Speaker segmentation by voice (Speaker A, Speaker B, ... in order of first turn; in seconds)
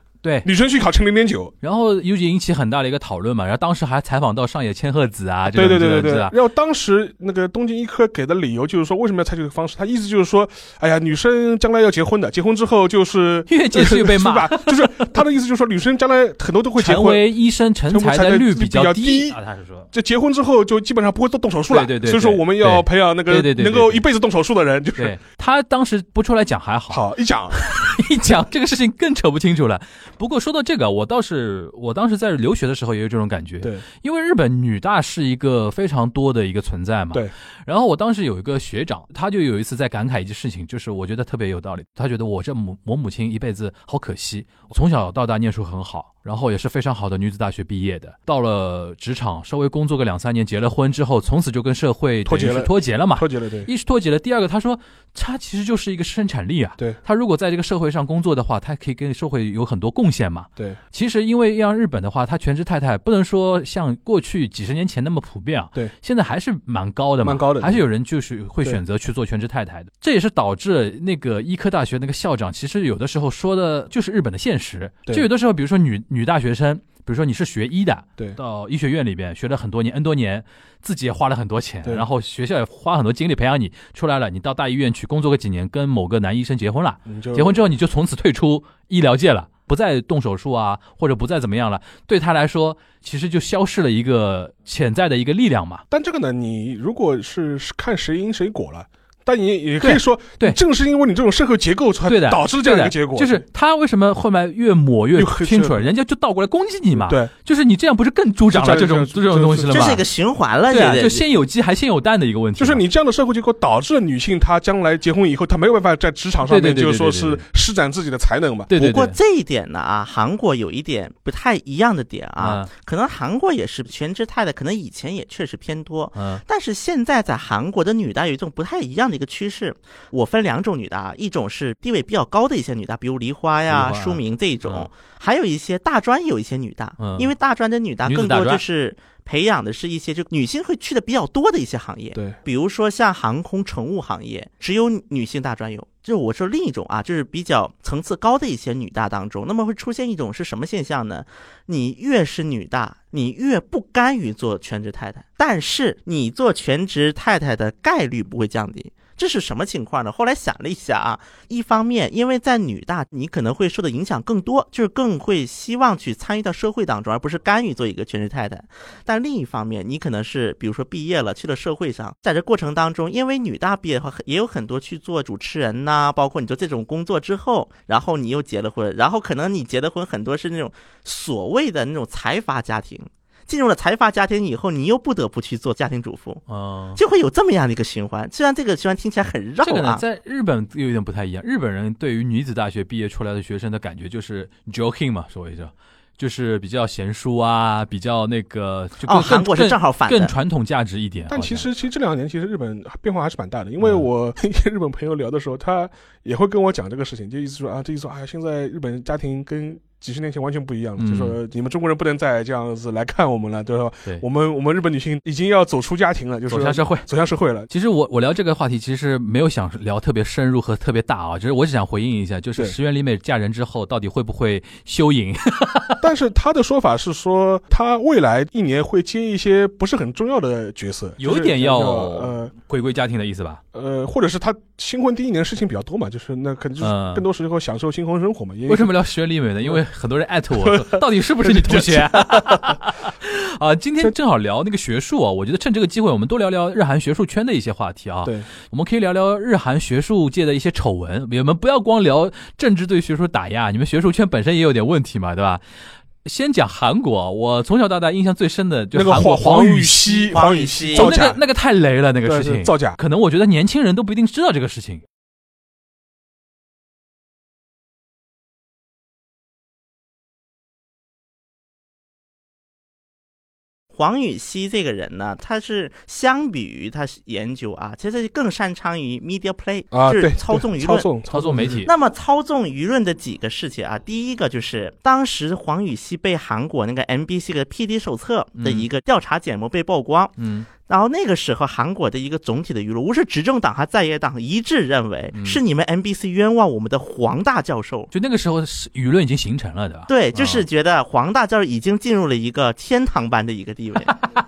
Speaker A: 0.2-0.5, 1.6-6.3, 13.5-15.2, 16.8-19.9, 21.7-24.0, 25.0-95.8, 99.8-100.6, 102.1-110.1, 110.7-112.8, 116.5-117.4, 118.7-119.2, 122.4-122.7, 126.2-126.4, 133.7-134.9, 137.0-137.3, 138.1-138.6, 186.5-187.0, 189.6-201.7, 203.8-204.1, 211.0-211.4, 216.5-217.1, 217.7-226.1, 231.2-233.6, 236.8-237.3, 238.7-255.6, 256.2-260.3, 260.9-265.0, 281.3-281.9, 288.6-288.9, 290.4-290.7, 295.3-295.6, 298.1-300.7
Speaker B: 0.4-1.5, 5.5-17.2, 17.9-19.4, 19.9-25.1, 26.9-27.7, 52.2-53.7, 67.2-67.8, 87.1-87.6, 95.9-103.4, 105.2-105.9, 107.0-107.3, 108.5-110.0, 112.6-118.7, 201.3-217.7, 226.0-232.5, 233.7-238.9, 240.6-242.8, 258.9-261.4, 262.3-263.0, 279.9-281.9
Speaker C: 109.7-111.2, 118.8-186.4, 187.0-190.0, 199.0-200.3, 260.3-261.2, 273.9-281.1, 281.9-290.3, 290.9-298.1, 300.1-304.2